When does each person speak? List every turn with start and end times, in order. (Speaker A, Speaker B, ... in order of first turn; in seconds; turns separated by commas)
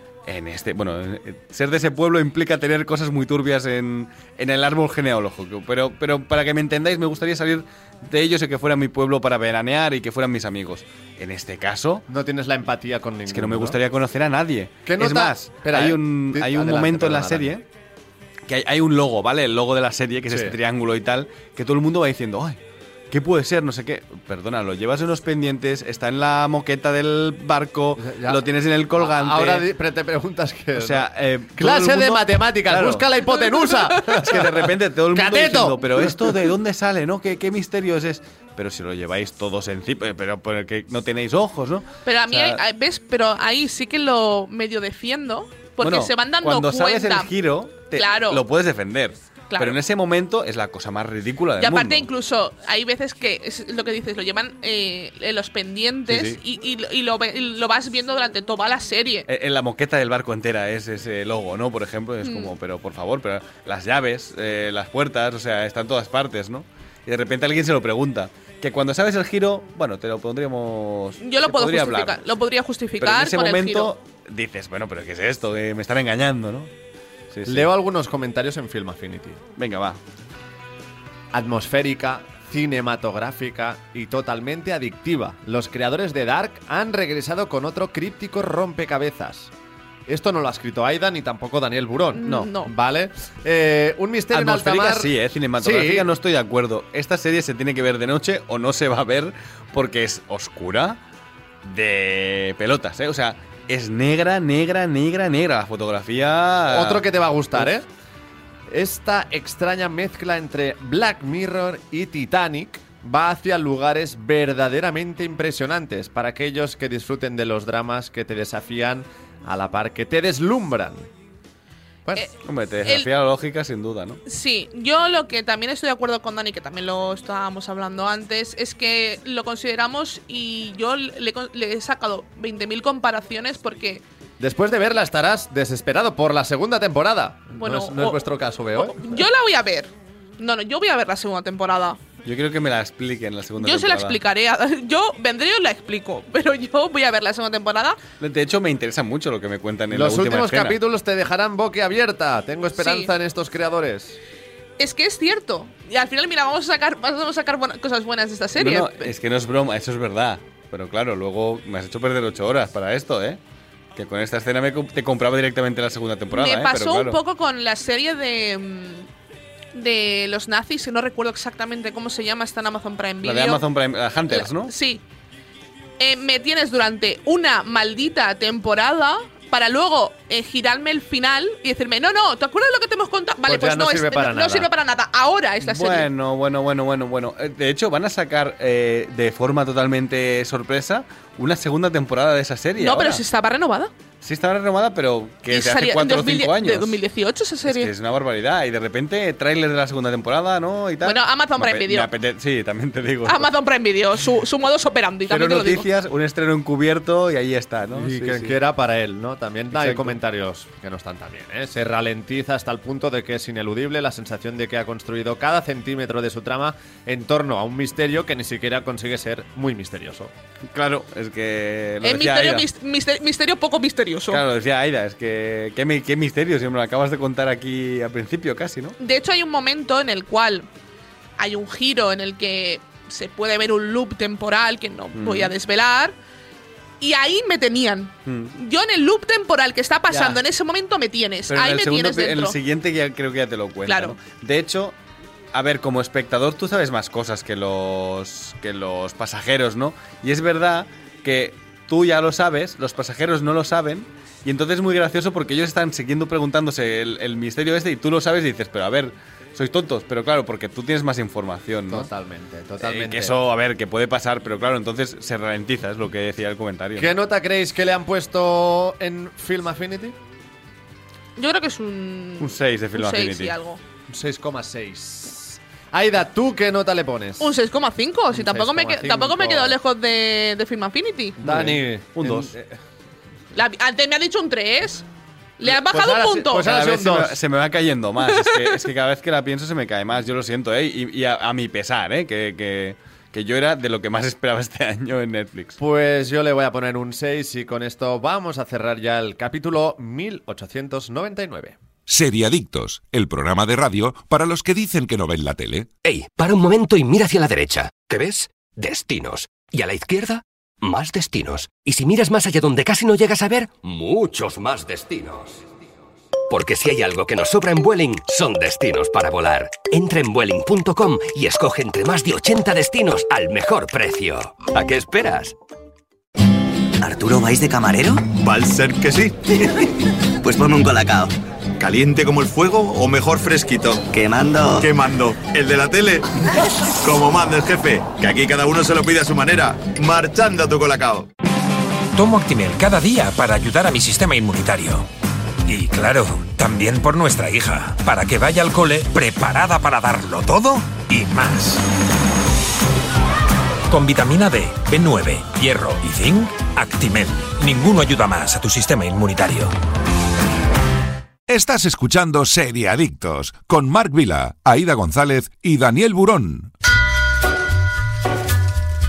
Speaker A: 0.3-12.1, Speaker B: 12.1-13.8, Speaker A: 13.3-17.6, Speaker B: 14.9-17.5, Speaker A: 18.5-22.6, Speaker B: 20.3-20.6, Speaker A: 23.1-29.7, Speaker B: 28.0-28.4, Speaker B: 29.0-36.4, Speaker A: 30.8-33.1, Speaker A: 34.0-42.6, Speaker C: 42.1-47.3, Speaker A: 45.8-52.1, Speaker C: 47.9-48.4, Speaker C: 49.5-49.8, Speaker C: 51.6-59.3, Speaker A: 56.1-56.4, Speaker A: 59.3-72.2, Speaker C: 62.2-62.5, Speaker C: 71.2-73.9, Speaker A: 73.0-76.7, Speaker A: 77.3-77.7, Speaker B: 77.5-79.4, Speaker A: 79.6-80.0, Speaker B: 81.3-89.5, Speaker B: 90.1-96.1, Speaker C: 92.1-92.7, Speaker A: 92.2-92.5, Speaker A: 94.3-101.0, Speaker A: 101.6-107.8, Speaker B: 106.7-107.8, Speaker B: 108.7-121.1, Speaker A: 122.4-124.2, Speaker C: 124.3-134.0, Speaker B: 134.4-139.3, Speaker C: 137.6-138.2, Speaker C: 138.8-142.0, Speaker A: 142.2-144.2, Speaker C: 143.6-148.0, Speaker A: 148.2-150.8, Speaker B: 149.9-154.2, Speaker C: 152.8-153.1, Speaker C: 154.8-159.1, Speaker A: 158.6-163.4, Speaker A: 164.0-167.2, Speaker C: 166.3-169.1, Speaker C: 169.7-173.7, Speaker A: 173.2-174.7, Speaker C: 174.3-175.0, Speaker C: 176.0-186.1, Speaker B: 183.5-184.7, Speaker A: 185.6-193.2, Speaker C: 192.8-193.9, Speaker A: 194.2-197.0, Speaker C: 195.5-197.9, Speaker A: 197.7-203.5, Speaker C: 201.0-202.1, Speaker C: 203.2-205.9, Speaker A: 205.3-208.6, Speaker B: 207.9-220.3, Speaker A: 209.7-210.2, Speaker A: 220.7-222.7, Speaker C: 222.0-224.4, Speaker A: 224.3-229.0, Speaker C: 229.0-230.7, Speaker C: 231.4-236.2, Speaker A: 235.2-235.5, Speaker C: 237.0-242.6, Speaker A: 238.3-238.5, Speaker A: 240.1-240.4, Speaker A: 241.5-244.9, Speaker C: 243.9-244.2, Speaker A: 245.5-262.1, Speaker B: 261.9-263.4, Speaker A: 262.8-267.1, Speaker B: 267.0-270.2, Speaker C: 271.4-273.8, Speaker A: 272.4-273.6, Speaker B: 274.1-277.6, Speaker C: 277.4-281.4, Speaker B: 278.3-279.8, Speaker B: 281.4-282.7, Speaker A: 281.4-282.5, Speaker C: 283.5-285.1, Speaker C: 285.6-286.8, Speaker B: 285.6-287.4, Speaker A: 286.6-295.8, Speaker C: 288.2-288.8, Speaker B: 295.8-301.8, Speaker D: 302.1-305.9, Speaker E: 306.0-315.7, Speaker E: 316.5-325.6, Speaker F: 327.0-328.3, Speaker G: 328.3-330.0, Speaker F: 330.4-331.2, Speaker G: 331.0-334.1, Speaker F: 334.1-334.9, Speaker G: 334.7-341.3, Speaker H: 342.1-345.1, Speaker H: 345.7-351.8, Speaker H: 353.9-359.8, Speaker D: 361.5-366.7